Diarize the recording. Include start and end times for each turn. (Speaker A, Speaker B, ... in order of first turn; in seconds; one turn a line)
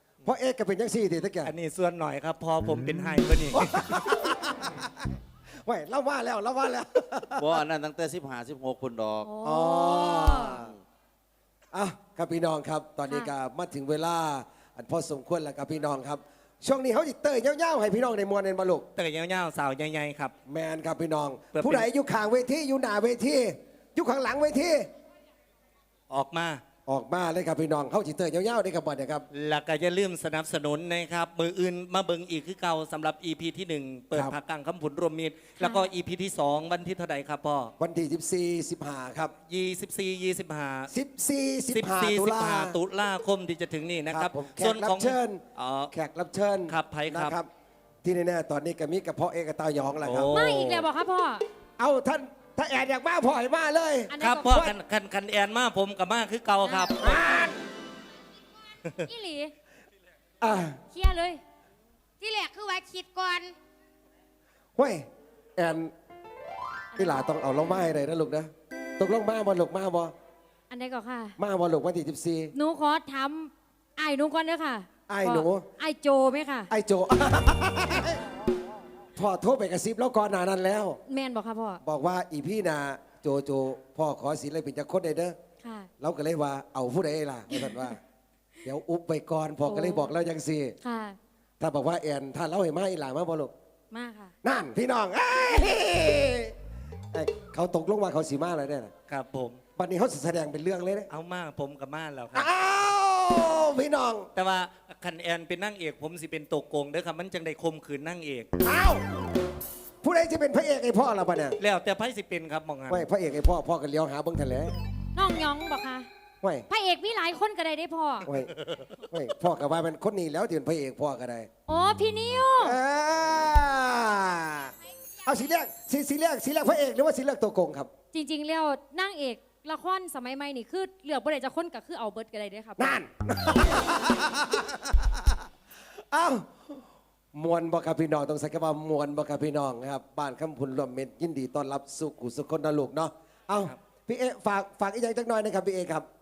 Speaker A: 0.2-1.5
Speaker B: 1.4-4.1
Speaker A: 3.5-7.6
Speaker C: 7.4-9.4
Speaker D: 9.3-10.6
Speaker A: 9.4-10.7
Speaker A: 11.7-18.9
Speaker B: 19.0-20.3
Speaker A: 20.5-24.9
Speaker B: 21.5-21.9
Speaker B: 26.1-26.6
Speaker A: 26.9-29.2
Speaker B: 29.3-37.7
Speaker A: 37.8-39.3
Speaker B: 39.5-40.9
Speaker A: 40.9-42.8
Speaker B: 41.7-45.9
Speaker A: 44.1-47.5
Speaker B: 46.7-47.4
Speaker A: 48.0-50.4
Speaker B: 50.0-50.9
Speaker D: 50.4-51.4
Speaker A: 51.8-54.8
Speaker D: 54.1-54.5
Speaker B: 54.2-57.2
Speaker D: 56.6-56.9
Speaker A: 57.0-57.5
Speaker D: 59.1-59.5
Speaker A: 60.4-60.8
Speaker D: 60.9-61.4
Speaker D: 62.2-63.5
Speaker A: 64.8-65.9
Speaker A: 67.0-70.1
Speaker D: 70.7-71.4
Speaker A: 71.4-72.5
Speaker D: 72.6-76.7
Speaker A: 75.1-75.7
Speaker A: 76.7-78.2
Speaker A: 79.2-81.0
Speaker D: 81.1-81.8
Speaker A: 81.8-85.4
Speaker A: 86.0-88.0
Speaker A: 88.6-90.8
Speaker D: 89.7-90.1
Speaker D: 90.8-91.2
Speaker A: 91.6-93.5
Speaker D: 93.9-94.3
Speaker A: 94.4-96.5
Speaker A: 97.1-98.9
Speaker B: 99.1-99.6
Speaker A: 99.8-101.1
Speaker B: 101.1-102.5
Speaker A: 102.3-104.3
Speaker B: 104.3-108.5
Speaker A: 108.6-109.0
Speaker A: 110.0-111.6
Speaker B: 111.6-113.0
Speaker A: 112.9-114.8
Speaker D: 115.2-116.1
Speaker A: 116.4-116.7
Speaker D: 116.7-118.3
Speaker A: 118.3-118.5
Speaker A: 119.1-121.5
Speaker D: 121.7-122.8
Speaker A: 122.6-124.7
Speaker A: 125.2-127.9
Speaker D: 128.1-132.9
Speaker A: 132.8-135.2
Speaker A: 136.1-136.8
Speaker A: 137.3-146.1